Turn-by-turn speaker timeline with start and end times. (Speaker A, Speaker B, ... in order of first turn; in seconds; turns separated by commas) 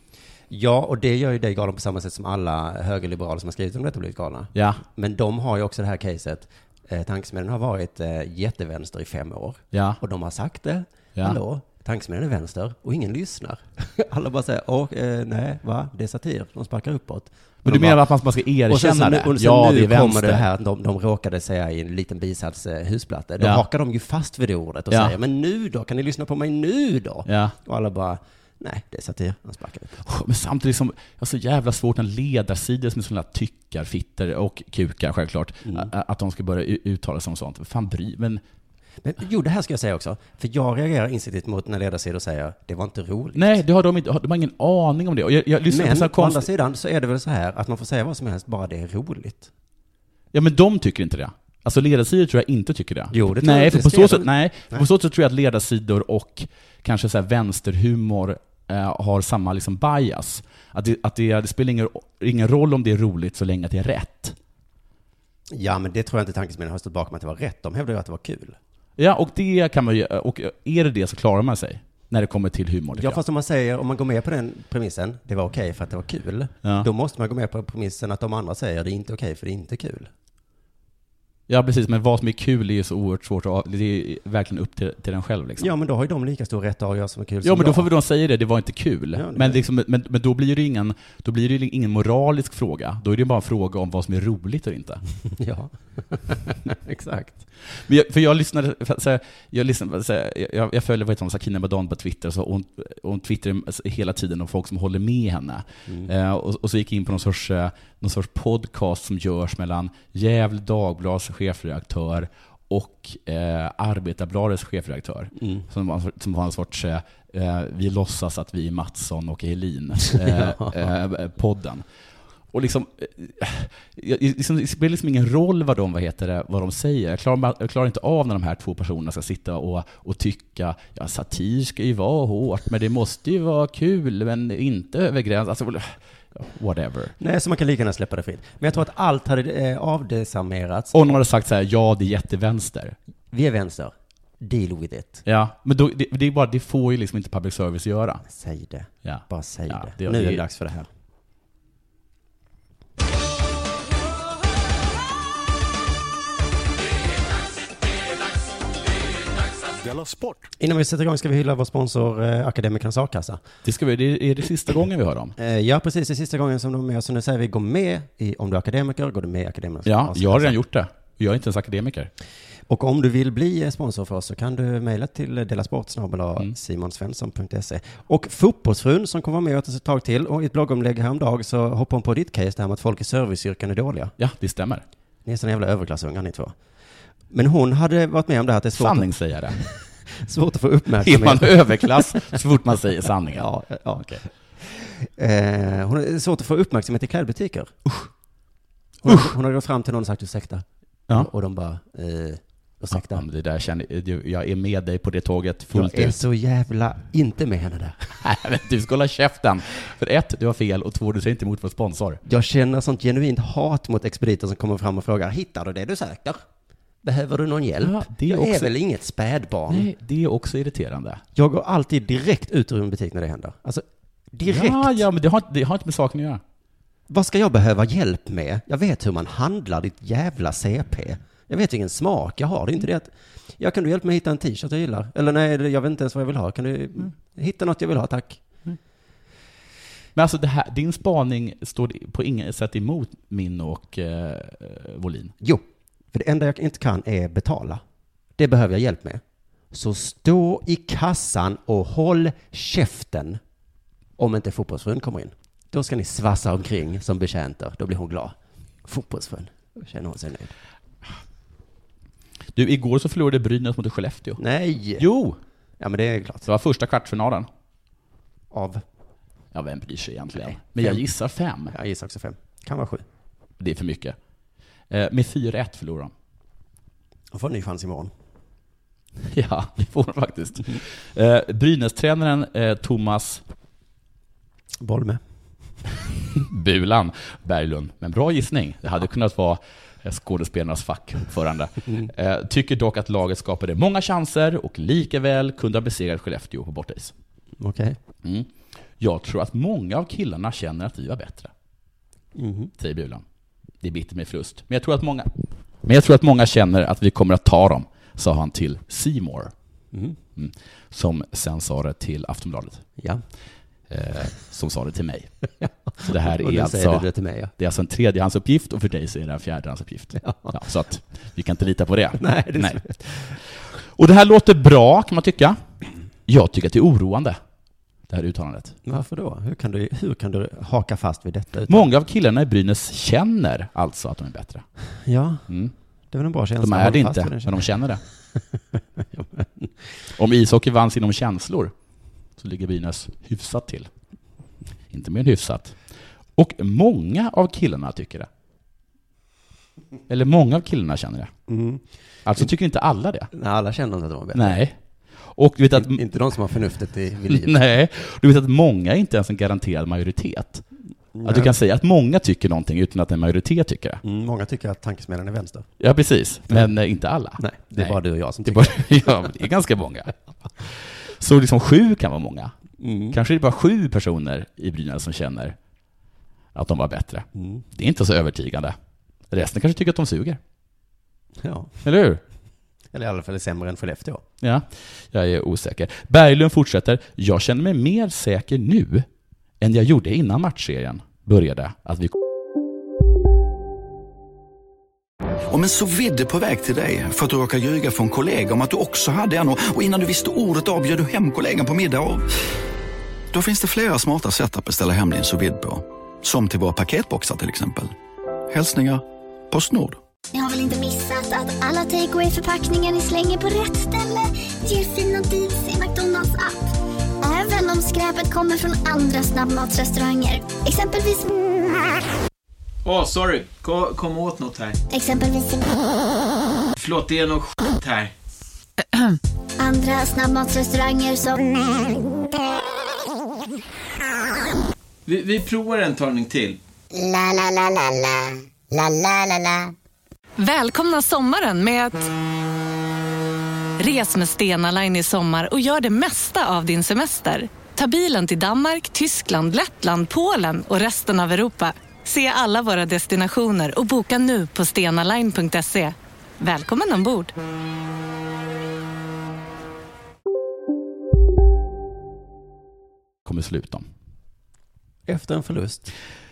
Speaker A: 0.5-18.0, Speaker B: 4.5-4.8, Speaker B: 9.7-10.0, Speaker B: 17.6-20.4, Speaker A: 18.7-30.0, Speaker B: 27.2-27.5, Speaker B: 30.0-38.4, Speaker A: 39.0-43.6, Speaker B: 43.4-46.5, Speaker A: 45.7-49.5, Speaker B: 50.3-64.3, Speaker A: 53.1-54.9, Speaker A: 65.5-68.6, Speaker B: 69.0-73.2, Speaker A: 72.9-80.1, Speaker B: 81.5-85.7, Speaker A: 85.6-87.9, Speaker B: 87.4-95.0, Speaker A: 89.1-89.6, Speaker A: 95.3-97.4, Speaker B: 97.8-121.8, Speaker A: 115.4-115.6, Speaker A: 120.0-120.8, Speaker B: 122.5-137.1, Speaker A: 137.2-141.2, Speaker B: 140.9-142.9, Speaker A: 143.3-145.2, Speaker B: 145.2-148.2, Speaker A: 148.2-150.9, Speaker B: 149.0-150.4, Speaker A: 160.6-163.4, Speaker B: 163.6-165.3, Speaker A: 165.4-170.6, Speaker B: 169.8-172.1, Speaker A: 172.7-184.1, Speaker B: 184.2-184.8, Speaker A: 185.2-186.5, Speaker A: 187.3-192.4, Speaker B: 188.8-189.6, Speaker B: 191.0-194.2, Speaker A: 193.3-197.8, Speaker A: 199.0-203.2, Speaker B: 199.1-199.3, Speaker B: 202.9-206.2, Speaker A: 205.7-208.2, Speaker B: 208.2-212.2, Speaker A: 212.2-216.4, Speaker A: 217.0-219.9, Speaker B: 217.8-218.7, Speaker B: 219.7-221.2, Speaker A: 221.3-225.0, Speaker B: 224.4-226.4, Speaker A: 227.1-238.4, Speaker B: 240.2-245.3, Speaker A: 245.4-247.8, Speaker A: 248.4-253.4, Speaker A: 254.2-260.5, Speaker B: 262.5-264.4, Speaker A: 264.4-265.1, Speaker B: 265.0-265.4, Speaker A: 265.8-266.5, Speaker B: 266.4-267.5, Speaker A: 268.5-268.8, Speaker B: 269.5-271.7, Speaker A: 270.4-271.0, Speaker A: 271.7-273.0, Speaker B: 273.6-274.1, Speaker B: 274.9-276.1, Speaker A: 277.3-278.1, Speaker B: 279.2-283.4, Speaker A: 284.8-285.2, Speaker B: 286.3-297.1, Speaker A: 297.6-298.0, Speaker B: 298.2-301.5, Speaker A: 302.3-302.7, Speaker B: 302.8-303.2, Speaker B: 303.8-305.3, Speaker B: 305.8-309.5, Speaker B: 310.4-312.8, Speaker A: 313.0-313.2, Speaker B: 313.9-315.3, Speaker A: 315.6-317.5, Speaker B: 316.0-322.8, Speaker A: 320.2-320.6, Speaker A: 322.2-323.3, Speaker B: 323.9-325.6, Speaker B: 326.3-327.4, Speaker B: 328.1-328.8, Speaker A: 328.8-331.9, Speaker B: 331.7-334.6, Speaker A: 335.0-335.4, Speaker B: 335.5-335.7, Speaker A: 336.1-337.7, Speaker B: 336.6-338.0, Speaker A: 339.0-339.7, Speaker B: 340.1-341.7, Speaker B: 342.4-343.9, Speaker B: 344.9-345.8, Speaker B: 346.4-348.3, Speaker B: 350.1-351.3, Speaker A: 351.5-351.8, Speaker B: 352.2-353.3, Speaker A: 353.3-354.6, Speaker B: 354.3-354.8, Speaker B: 355.3-356.0, Speaker A: 355.7-357.6, Speaker B: 357.3-360.6, Speaker A: 361.1-361.5, Speaker B: 361.2-364.0, Speaker A: 364.0-365.7, Speaker B: 365.8-370.1, Speaker A: 367.4-369.3, Speaker B: 370.6-372.5, Speaker A: 372.8-373.2, Speaker B: 373.1-375.6, Speaker B: 376.5-378.7, Speaker A: 377.4-377.6, Speaker B: 379.3-380.4, Speaker A: 381.4-381.7, Speaker B: 381.8-382.2, Speaker A: 382.9-384.2, Speaker B: 384.4-389.1, Speaker B: 389.6-392.1, Speaker C: 395.5-402.3, Speaker C: 403.3-407.9, Speaker C: 408.5-410.0, Speaker D: 410.3-416.6, Speaker D: 417.2-421.4, Speaker E: 422.8-424.8, Speaker D: 424.9-425.8, Speaker E: 426.8-428.1, Speaker D: 429.6-432.0, Speaker E: 435.1-436.6, Speaker F: 436.9-439.7, Speaker G: 440.4-442.1, Speaker G: 443.8-457.3, Speaker B: 463.2-463.9, Speaker A: 465.1-465.9